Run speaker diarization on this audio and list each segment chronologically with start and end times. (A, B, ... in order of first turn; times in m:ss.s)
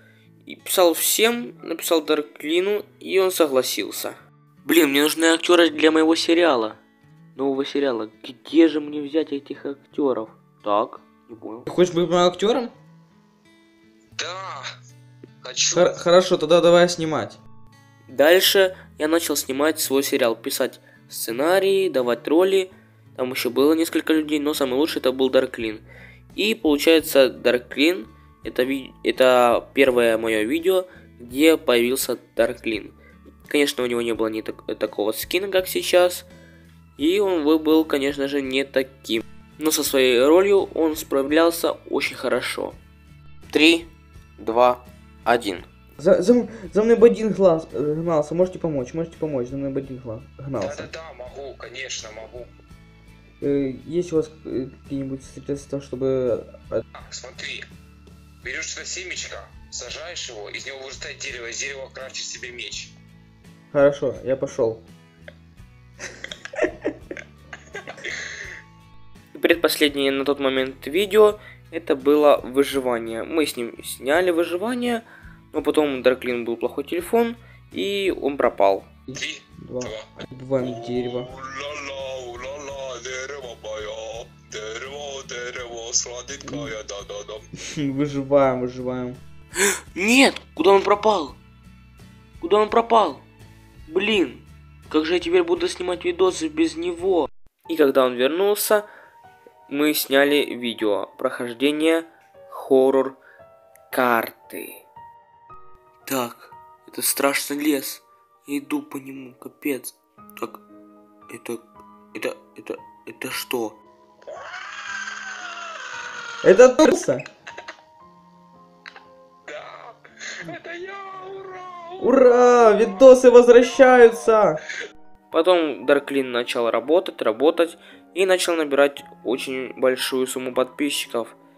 0:00.5-0:06.8 A
0:07.4-0:11.7 A
0:11.7-0:12.7 B
0:14.2-0:14.7 C
0:15.4-0:16.0 C
0:15.7-0:17.4 B
0:18.1-0:33.0 A
0:33.5-0:36.3 A
0:37.0-0:42.8 A
0:43.5-0:45.7 A
0:46.0-0:50.9 B
0:50.6-0:52.5 C
0:53.4-0:56.8 B
0:57.0-0:57.7 C
0:58.4-1:02.9 C
1:03.7-1:04.8 B
1:09.3-1:18.9 A
1:19.1-1:21.3 B
1:19.1-1:20.1 C
1:20.6-1:27.5 C
1:26.4-1:26.7 B
1:27.7-1:29.2 B
1:29.9-1:31.4 A
1:32.4-1:33.2 A
1:33.9-1:38.9 A
1:39.7-1:43.2 A
1:43.9-1:44.8 A
1:46.1-1:50.6 A
1:51.3-1:53.8 A
1:54.3-1:55.4 C
1:56.4-1:57.3 B
1:59.5-2:02.3 C
2:02.0-2:04.6 B
2:05.3-2:11.4 A